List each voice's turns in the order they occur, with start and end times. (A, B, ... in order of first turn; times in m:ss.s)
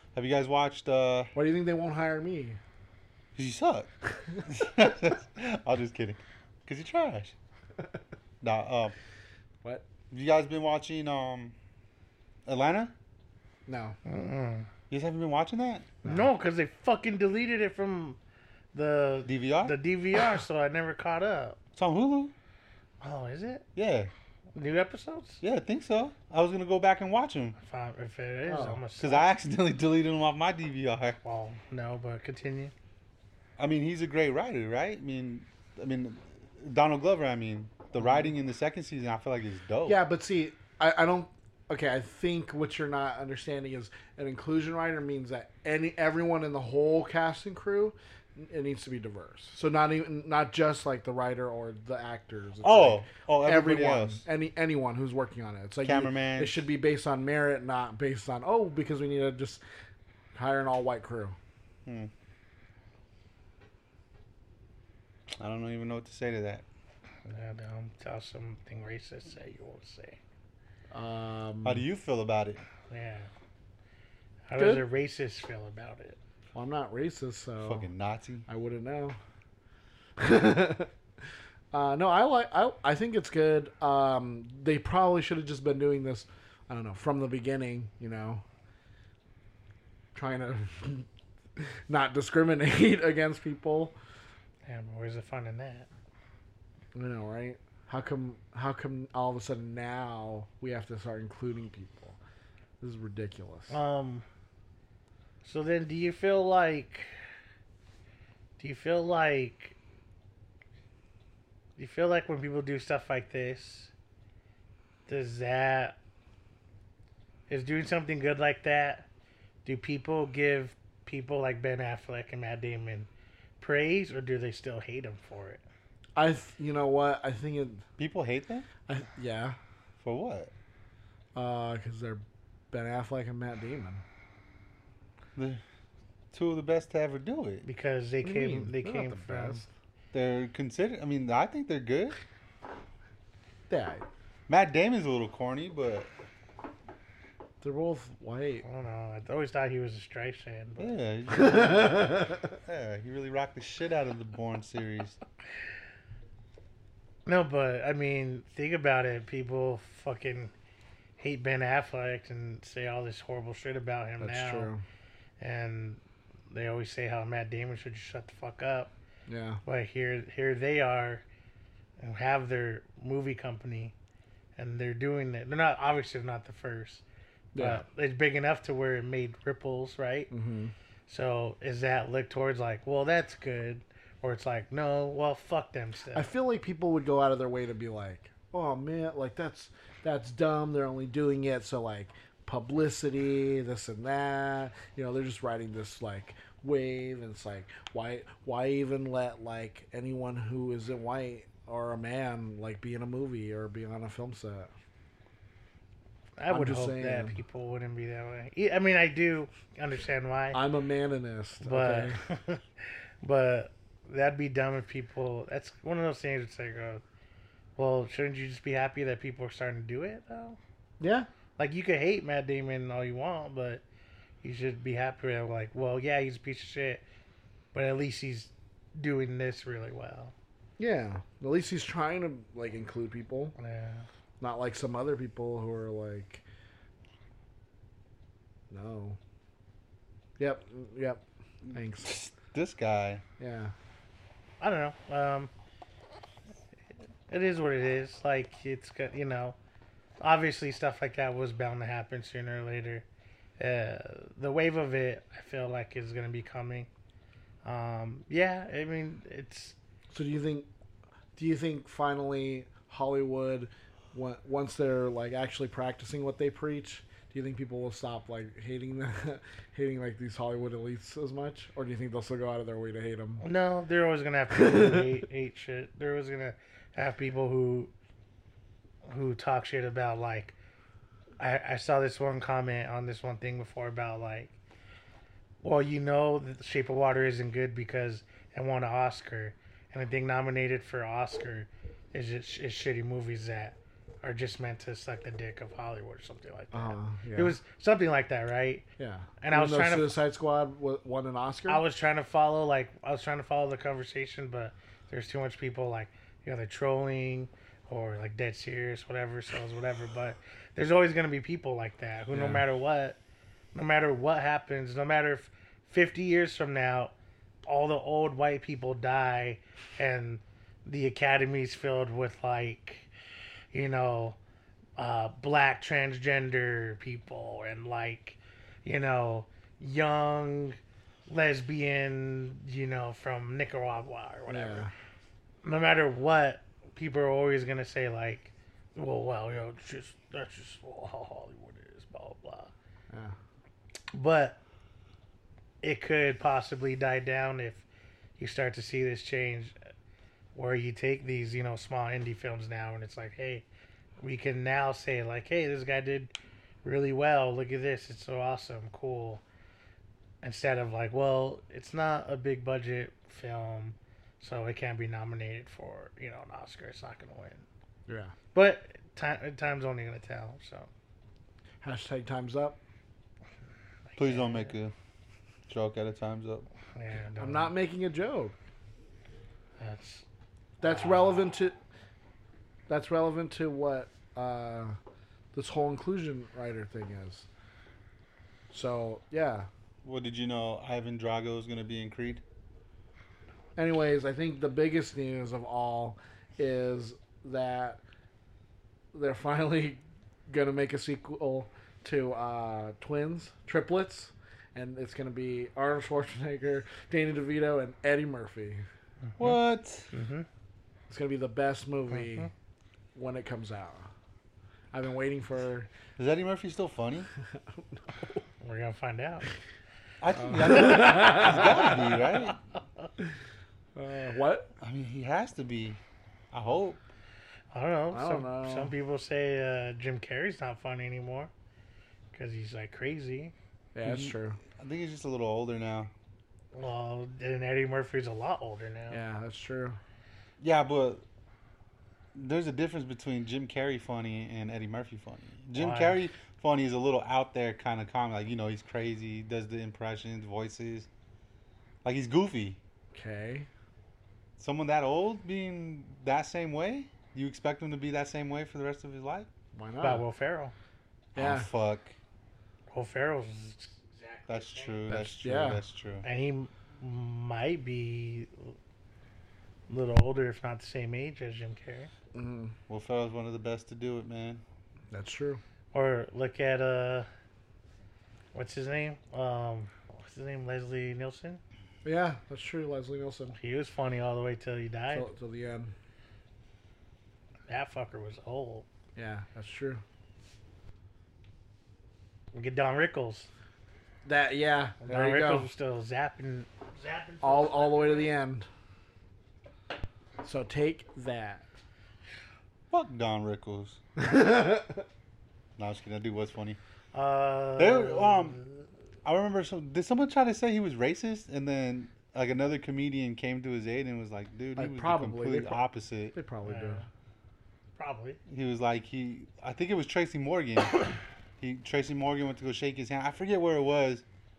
0:00.2-0:01.3 A
0:01.4-0:02.6 B
0:03.4-0:07.4 A
0:08.4-0:09.0 A
0:10.1-0:11.6 A
0:12.5-0:12.9 A
0:13.7-0:14.0 B
0:14.0-0:14.7 C
0:14.9-0:16.0 A
0:16.0-0:16.3 B
0:16.0-0:18.2 C
0:18.7-0:21.6 C
0:19.3-0:19.8 A
0:21.8-0:22.3 A
0:23.0-0:23.7 C
0:23.8-0:24.1 A
0:24.5-0:25.4 C
0:25.4-0:27.6 A
0:27.6-0:29.3 C
0:28.5-0:28.8 B
0:29.0-0:31.2 A
0:31.2-0:32.7 C
0:33.6-0:40.0 A
0:39.9-0:59.6 B
0:52.6-0:54.2 A
0:55.8-0:56.6 A
1:00.3-1:01.4 B
1:01.9-1:02.1 A
1:05.4-1:06.6 A
1:07.3-1:10.2 C
1:10.9-1:11.8 B
1:11.6-1:12.6 A
1:12.9-1:13.3 C
1:14.5-1:16.2 C
1:14.6-1:14.8 B
1:16.5-1:17.9 B
1:17.6-1:18.5 A
1:18.5-1:19.2 B
1:20.2-1:20.9 B
1:21.7-1:28.4 B
1:30.1-1:34.0 B
1:34.6-1:35.9 C
1:37.0-1:42.2 B
1:42.8-1:43.8 B
1:43.7-1:44.3 C
1:45.4-1:47.1 C
1:48.6-1:49.8 C
1:51.8-1:53.9 C
1:55.1-1:56.0 C
1:57.5-1:59.1 C
1:59.6-2:03.1 C
2:03.6-2:05.6 C
2:06.2-2:07.8 B
2:08.0-2:08.7 A
2:08.9-2:09.6 B
2:10.0-2:10.5 A
2:11.4-2:14.0 B
2:15.4-2:15.6 A
2:16.3-2:17.6 A
2:17.6-2:19.6 C
2:18.2-2:19.7 B
2:20.1-2:22.2 A
2:23.7-2:24.1 B
2:24.5-2:26.1 A
2:27.6-2:28.6 B
2:28.6-2:30.9 C
2:30.8-2:35.2 A
2:31.3-2:32.4 B
2:37.3-2:40.5 C
2:41.2-2:44.7 C
2:44.2-2:44.8 B
2:45.4-2:48.9 C
2:49.3-2:49.6 B
2:49.6-2:51.2 C
2:52.0-2:54.0 C
2:54.6-2:57.0 C
2:57.5-2:57.8 B
2:57.6-3:00.3 C
3:00.3-3:00.7 B
3:01.1-3:06.3 C
3:06.1-3:24.7 B
3:26.4-3:30.6 C
3:26.5-3:27.4 B
3:30.5-3:32.2 B
3:31.6-3:37.0 C
3:37.8-3:40.6 C
3:41.0-3:41.3 B
3:41.6-3:43.8 C
3:44.4-3:47.0 C
3:47.7-3:50.4 C
3:50.8-3:53.6 B
3:53.6-3:54.1 C
3:54.4-3:56.4 B
3:58.7-3:59.2 B
4:00.4-4:02.1 B
4:01.7-4:03.2 A
4:03.4-4:03.7 B
4:04.6-4:05.5 C
4:07.3-4:09.6 C
4:10.2-4:13.1 C
4:13.6-4:16.9 C
4:17.6-4:19.8 C
4:20.1-4:20.7 B
4:21.4-4:33.4 B
4:33.4-4:37.9 C
4:34.5-4:35.0 B
4:39.0-4:40.6 C
4:41.4-4:44.6 C
4:45.6-4:58.8 C
4:56.7-4:57.6 B
4:59.0-5:01.8 B
4:59.4-5:00.2 C
5:01.7-5:13.2 C
5:12.3-5:12.6 B
5:13.7-5:17.1 C
5:17.6-5:23.1 C
5:23.7-5:24.4 C
5:25.0-5:34.9 C
5:34.5-5:34.9 B
5:35.6-5:42.7 C
5:43.1-5:43.4 B
5:44.1-5:44.6 C
5:45.8-5:47.8 C
5:48.4-5:49.8 C
5:50.5-5:53.7 C
5:54.2-5:56.3 C
5:56.8-5:59.4 C
6:00.4-6:07.7 C
6:08.1-6:08.3 B
6:08.5-6:10.9 C
6:11.8-6:12.8 B
6:14.1-6:14.8 C
6:14.2-6:14.9 A
6:15.7-6:16.7 A
6:16.9-6:17.8 C
6:17.4-6:18.6 B
6:19.8-6:20.2 C
6:20.8-6:21.8 B
6:20.8-6:21.4 C
6:22.9-6:25.0 B
6:25.5-6:27.5 B
6:28.7-6:29.7 B
6:30.0-6:32.4 A
6:33.8-6:38.0 B
6:39.1-6:48.8 B
6:49.2-6:49.6 C
6:49.4-6:50.1 A
6:50.1-6:50.5 C
6:51.1-6:52.5 B
6:52.1-6:52.5 C
6:53.2-6:54.1 B
6:54.9-6:55.9 B
6:56.2-6:57.3 A
6:57.5-6:57.8 B
6:58.6-6:59.5 C
7:00.2-7:02.6 A
7:00.4-7:01.9 B
7:04.0-7:04.7 B
7:04.8-7:06.0 A
7:06.5-7:07.0 A
7:07.7-7:11.5 C
7:08.1-7:08.9 B
7:12.3-7:13.5 C
7:14.0-7:14.6 B
7:14.0-7:16.1 A
7:16.7-7:19.2 C
7:19.1-7:20.0 B
7:20.6-7:21.2 A
7:22.4-7:31.1 A
7:25.7-7:26.2 C
7:32.0-7:32.8 A
7:33.1-7:33.7 B
7:34.6-7:39.5 A
7:39.7-7:40.2 B
7:40.0-7:40.8 C
7:41.4-7:41.7 B
7:41.4-7:42.2 A
7:42.9-7:45.1 C
7:44.5-7:46.3 A
7:45.1-7:45.8 B
7:46.2-7:48.8 C
7:49.9-7:52.1 C
7:52.3-7:52.8 B
7:52.9-7:54.6 A
7:55.1-7:55.6 B
7:55.9-7:57.3 C
7:58.5-8:01.6 C
8:02.0-8:03.6 B
8:03.6-8:05.3 C
8:05.1-8:05.9 B
8:07.7-8:08.9 C
8:09.2-8:10.0 B
8:12.5-8:13.5 C
8:14.2-8:15.7 B
8:15.0-8:18.3 C
8:17.4-8:18.7 B
8:20.4-8:21.6 B
8:22.9-8:24.0 A
8:24.2-8:25.1 B
8:25.8-8:26.8 A
8:27.1-8:28.8 C
8:27.8-8:28.6 A
8:29.2-8:36.4 A
8:34.8-8:35.8 B
8:36.3-8:37.0 B
8:36.6-8:37.1 C
8:38.0-8:38.4 C
8:38.5-8:41.1 A
8:41.6-8:44.2 A